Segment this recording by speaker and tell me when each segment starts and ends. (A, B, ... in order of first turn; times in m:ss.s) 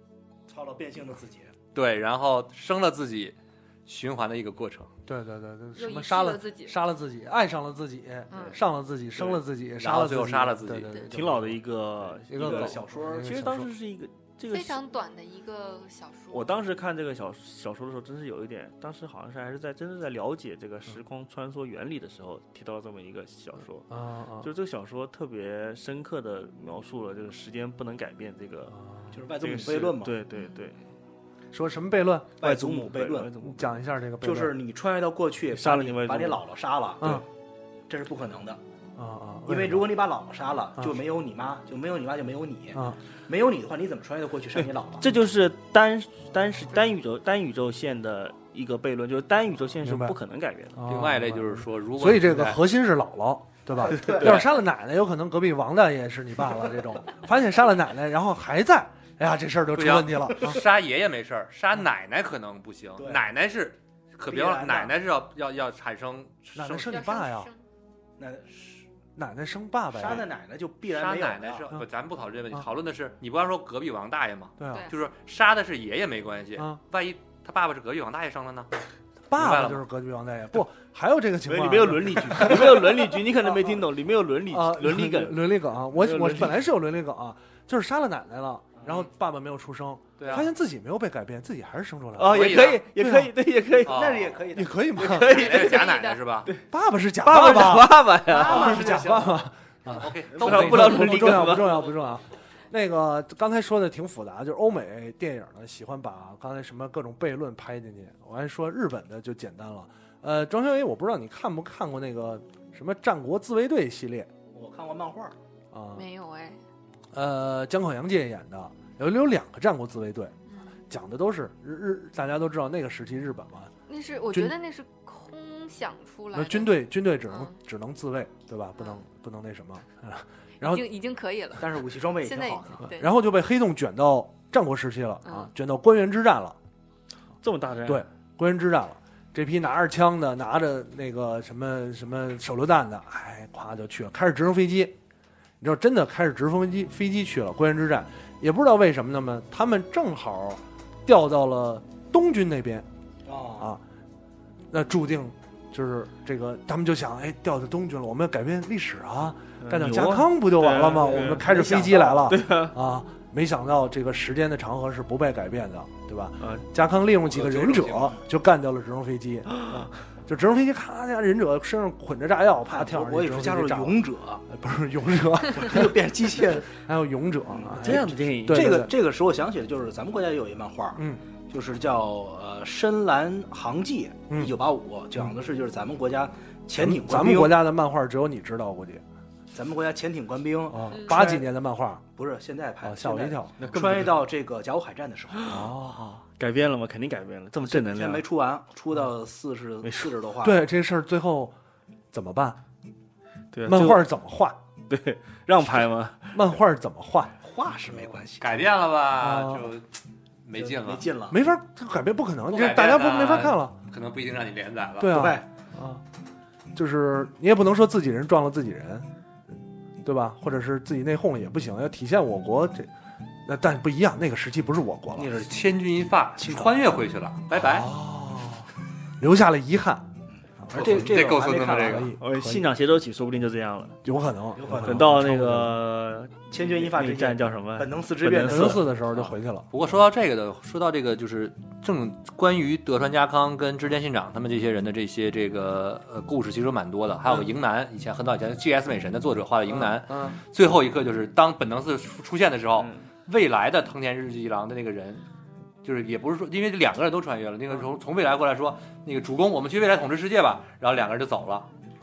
0:00.5-0:01.5 A
0:01.7-0:04.9 B
0:05.0-0:11.6 C
0:05.8-0:06.7 D
0:08.3-0:08.6 D
0:09.8-0:11.1 B
0:11.1-0:14.8 E
0:12.2-0:13.7 C
0:12.3-0:13.3 A
0:14.5-0:16.5 D
0:16.3-0:23.9 E
0:23.9-0:24.5 C
0:24.4-0:28.8 E
0:28.7-0:29.1 C
0:29.1-0:30.2 A
0:29.4-0:30.8 E
0:31.5-0:32.4 C
0:32.4-0:33.4 A
0:32.4-0:33.8 E
0:33.4-0:34.6 C
0:34.2-0:37.2 A
0:35.5-0:36.4 E
0:37.0-0:37.2 C
0:37.9-0:38.6 A
0:39.0-0:39.9 C
0:39.5-0:45.0 A
0:44.6-0:50.8 E
0:49.8-0:50.2 C
0:50.7-1:00.6 C
0:50.8-0:52.6 B
0:53.9-0:54.4 A
0:53.9-0:54.4 E
0:59.7-1:07.0 B
1:04.3-1:04.9 A
1:06.5-1:07.5 C
1:06.8-1:07.6 D
1:08.2-1:08.6 A
1:09.2-1:10.3 C
1:09.9-1:11.7 A
1:10.9-1:18.7 B
1:14.6-1:14.9 C
1:19.3-1:23.1 C
1:19.4-1:19.8 B
1:21.4-1:26.6 E
1:24.5-1:33.3 C
1:30.2-1:30.5 B
1:32.2-1:34.0 E
1:32.3-1:32.8 B
1:33.8-1:35.2 A
1:33.8-1:34.4 B
1:34.5-1:35.4 C
1:35.0-1:35.8 E
1:35.3-1:36.5 B
1:35.3-1:36.2 D
1:36.7-1:54.3 C
1:37.2-1:38.8 E
1:38.3-1:39.3 A
1:39.8-1:41.6 B
1:40.3-1:41.8 E
1:54.5-1:55.4 A
1:55.7-1:56.0 C
1:55.9-1:56.6 D
1:57.1-2:00.3 C
2:00.9-2:03.7 C
2:03.9-2:07.5 D
2:06.3-2:10.8 C
2:10.6-2:11.6 D
2:11.6-2:12.8 A
2:12.2-2:13.1 D
2:12.8-2:16.6 C
2:15.2-2:15.5 D
2:17.4-2:18.0 E
2:17.8-2:25.0 C
2:25.6-2:32.9 C
2:33.2-2:33.7 A
2:34.7-2:58.9 C
2:39.6-2:42.8 E
2:41.1-2:42.2 A
2:46.4-2:46.6 E
2:47.3-2:48.2 A
2:49.5-2:49.9 E
2:52.7-2:54.4 A
2:55.5-2:56.7 A
2:57.5-3:07.6 A
2:57.8-2:58.8 E
3:01.0-3:01.2 C
3:04.3-3:04.6 C
3:06.8-3:09.0 C
3:09.5-3:11.4 A
3:10.7-3:12.0 C
3:12.2-3:15.5 A
3:12.8-3:13.6 C
3:13.6-3:14.2 E
3:15.3-3:18.2 E
3:15.5-3:16.2 C
3:17.6-3:20.6 A
3:19.8-3:20.1 E
3:20.4-3:21.6 C
3:22.1-3:22.6 C
3:23.5-3:24.1 E
3:23.6-3:24.6 C
3:24.9-3:26.3 E
3:26.3-3:27.3 C
3:27.4-3:28.5 A
3:28.4-3:29.9 B
3:29.2-3:29.7 C
3:30.4-3:31.1 B
3:30.6-3:31.4 A
3:31.3-3:33.8 C
3:32.5-3:35.3 B
3:35.0-3:36.0 C
3:35.1-3:35.4 A
3:36.7-3:39.1 C
3:40.0-3:42.9 C
3:43.4-3:45.3 C
3:45.2-3:45.6 A
3:45.4-3:47.9 B
3:46.4-3:46.7 A
3:47.5-3:48.7 C
3:49.2-3:50.1 C
3:50.3-3:52.1 A
3:50.6-3:52.7 C
3:50.7-3:52.1 B
3:52.2-3:54.0 E
3:54.0-3:55.7 C
3:54.6-3:55.1 A
3:54.7-3:58.9 E
3:56.5-3:58.8 A
3:58.4-3:59.7 C
3:59.2-4:15.2 B
4:09.7-4:10.4 C
4:15.8-4:21.7 B